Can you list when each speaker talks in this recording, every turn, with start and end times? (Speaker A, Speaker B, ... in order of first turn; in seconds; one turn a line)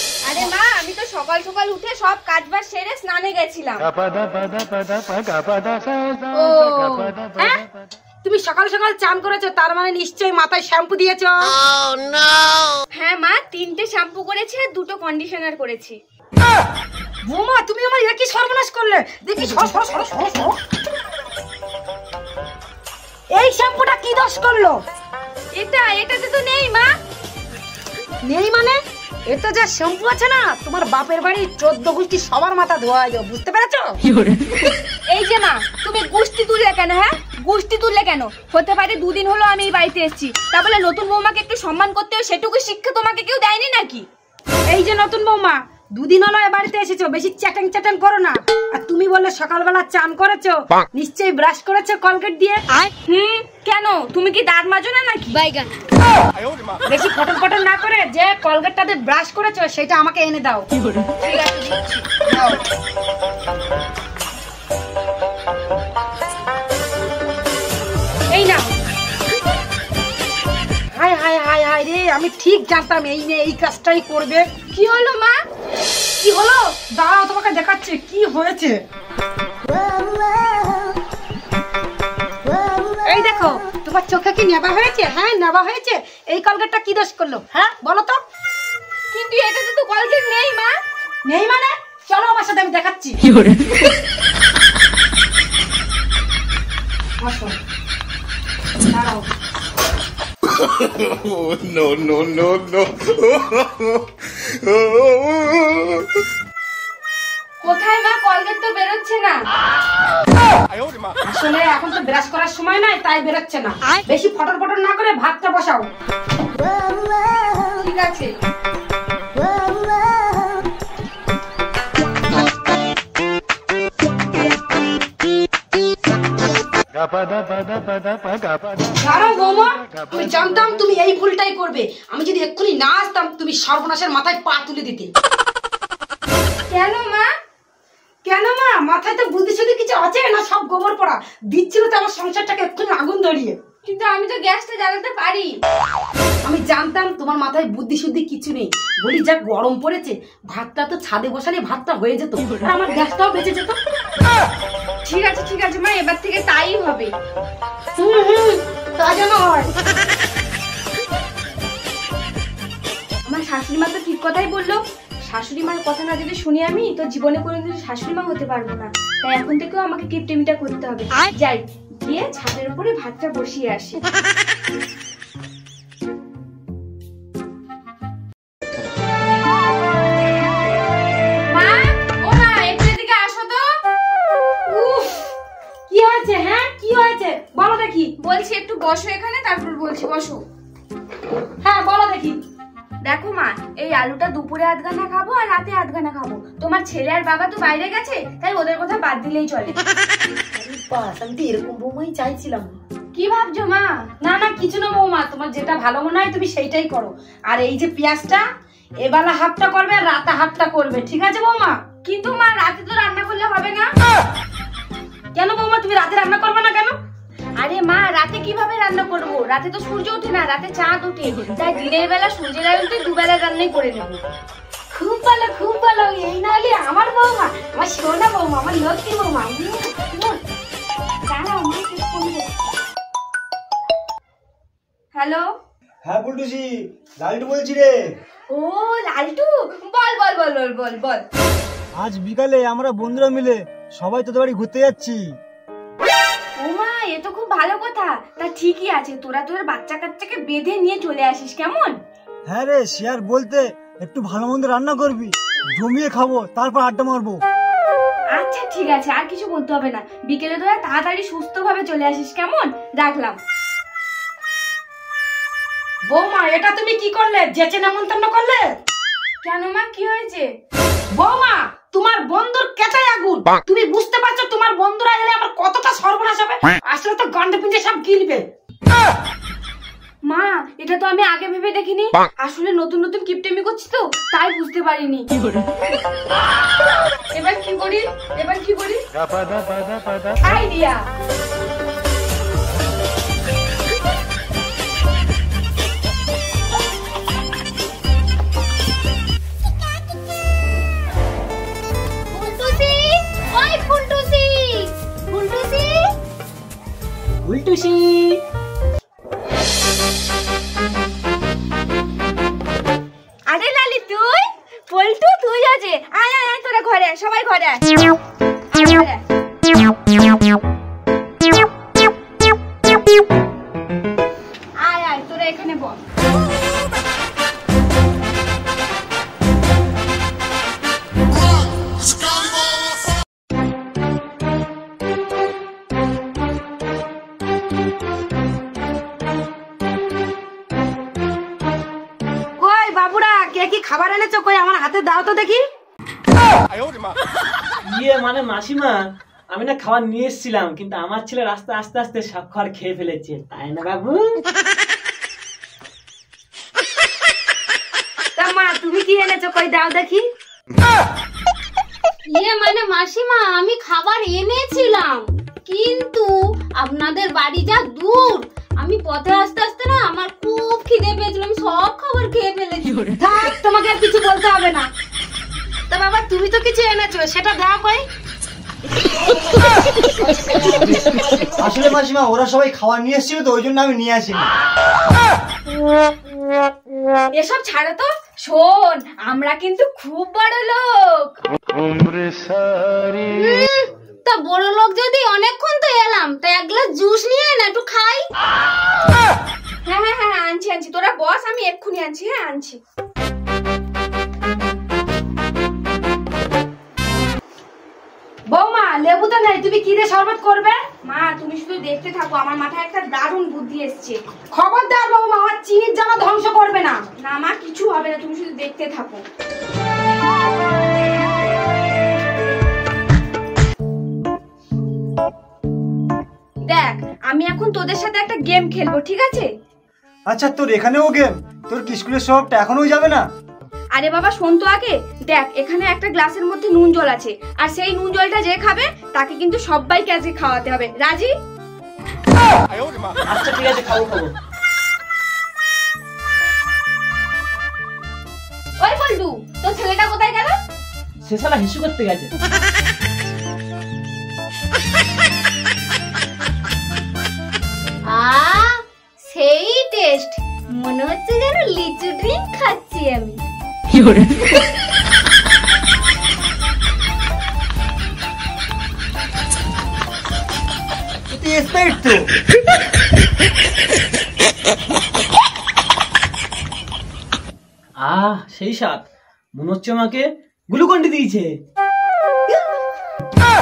Speaker A: 0.2-3.9
Speaker B: 6.3-7.6
Speaker B: 8.2-11.6
Speaker A: 12.9-16.0
Speaker B: 17.2-20.6
Speaker B: 23.3-24.8
Speaker A: 25.6-26.9
Speaker B: 28.2-34.0
Speaker A: 35.1-44.0
Speaker B: 44.7-52.6
Speaker A: 53.1-55.4
Speaker C: 55.4-55.7
Speaker B: 56.9-60.7
Speaker A: 61.2-62.1
Speaker B: 62.3-62.6
Speaker B: 68.3-68.6
Speaker B: 70.9-74.5
Speaker A: 74.7-75.4
Speaker B: 76.2-78.8
Speaker B: 83.0-88.2
Speaker A: 89.1-90.7
Speaker B: 91.2-93.5
Speaker B: 97.2-97.5
Speaker B: 98.9-99.2
Speaker A: 107.6-109.4
Speaker B: 111.2-115.9
Speaker A: 117.8-118.3
Speaker B: 129.0-135.1
Speaker A: 136.7-137.3
Speaker B: 138.2-143.6
Speaker A: 143.8-145.5
Speaker B: 146.4-153.8
Speaker A: 155.0-157.1
Speaker B: 158.0-159.7
Speaker A: 163.3-174.0
Speaker A: 181.5-183.7
Speaker B: 184.7-185.2
Speaker B: 185.9-188.1
Speaker A: 188.2-190.4
Speaker B: 191.6-192.4
Speaker A: 193.1-199.8
Speaker B: 200.6-202.8
Speaker A: 203.1-204.1
Speaker B: 204.2-208.4
Speaker B: 209.0-211.8
Speaker A: 212.0-213.9
Speaker B: 215.3-216.9
Speaker A: 217.6-224.2
Speaker B: 224.9-230.4
Speaker A: 231.3-232.6
Speaker A: 235.1-235.5
Speaker D: 236.1-238.1
Speaker A: 238.5-241.2
Speaker D: 242.0-245.2
Speaker A: 246.6-252.0
Speaker D: 252.5-257.4
Speaker A: 258.4-263.4
Speaker B: 266.1-268.7
Speaker A: 269.4-270.5
Speaker B: 271.1-278.4
Speaker A: 280.2-285.3
Speaker A: 287.3-289.0
Speaker A: 290.3-291.0
Speaker C: 302.3-306.1
Speaker E: 307.4-308.4
Speaker A: 313.5-317.9
Speaker A: 318.7-319.2
Speaker A: 324.8-326.0
Speaker B: 342.6-345.6
Speaker E: 347.9-349.0
Speaker E: 349.5-354.4
Speaker B: 358.4-360.2
Speaker C: 362.2-373.1
Speaker B: 373.2-374.9
Speaker B: 375.9-378.1
Speaker D: 381.5-384.4
Speaker A: 387.3-391.4
Speaker C: 393.2-398.3
Speaker A: 399.9-402.8
Speaker B: 408.5-410.8
Speaker A: 411.0-414.2
Speaker B: 414.5-417.0
Speaker A: 417.2-419.2
Speaker A: 426.7-429.5
Speaker D: 430.3-433.2
Speaker A: 433.9-441.3
Speaker E: 443.3-444.3
Speaker A: 448.8-450.6
Speaker E: 451.2-452.3
Speaker C: 458.1-463.4
Speaker D: 471.3-472.3
Speaker E: 478.0-479.0
Speaker E: 479.6-481.5